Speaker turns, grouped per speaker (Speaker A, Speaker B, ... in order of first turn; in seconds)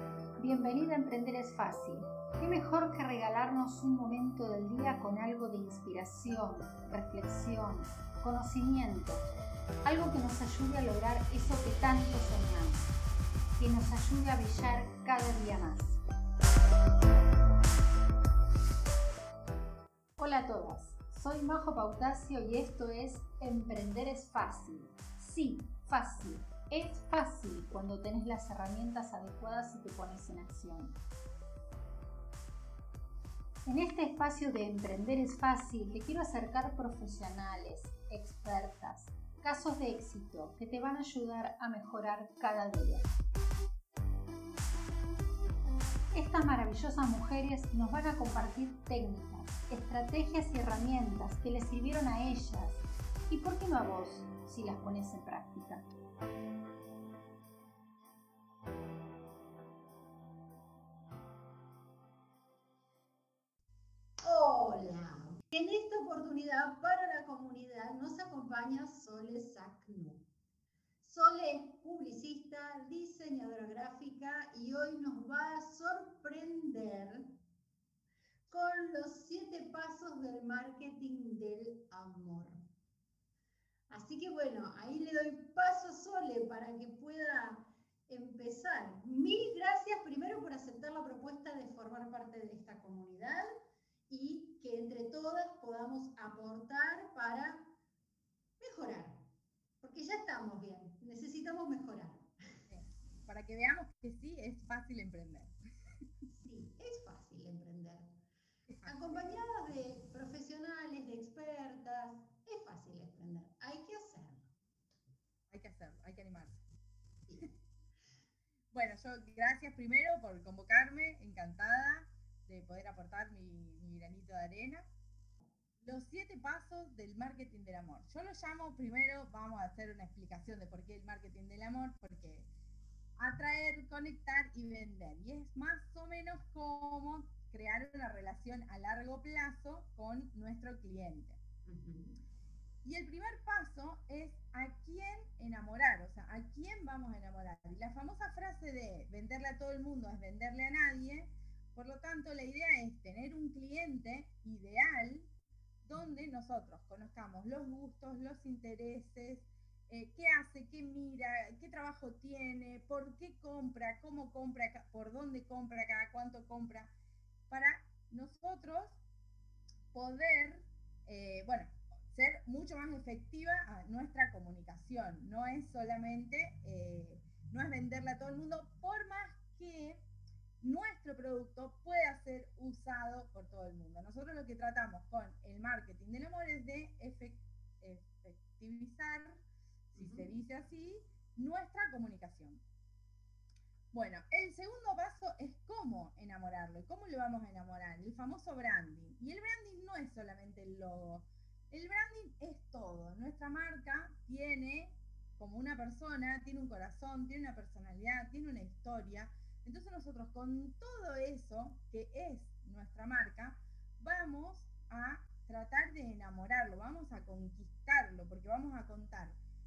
Speaker A: 0.4-9.3, 9.8-12.9, 13.6-16.0, 20.2-31.0, 33.6-43.1, 46.1-55.8
Speaker B: 64.2-70.3, 71.0-77.3, 78.5-82.7, 83.9-93.5, 94.1-97.7, 98.6-99.3, 99.8-102.3, 106.3-108.2, 108.8-114.5, 117.3-117.5, 141.7-142.2, 189.9-190.3
Speaker C: 102.7-105.5, 108.7-109.4, 115.5-116.6, 118.7-124.9, 125.8-132.5, 133.2-141.4, 142.8-155.3, 155.8-166.9, 167.5-169.0, 169.9-180.0, 180.6-192.6, 193.9-219.4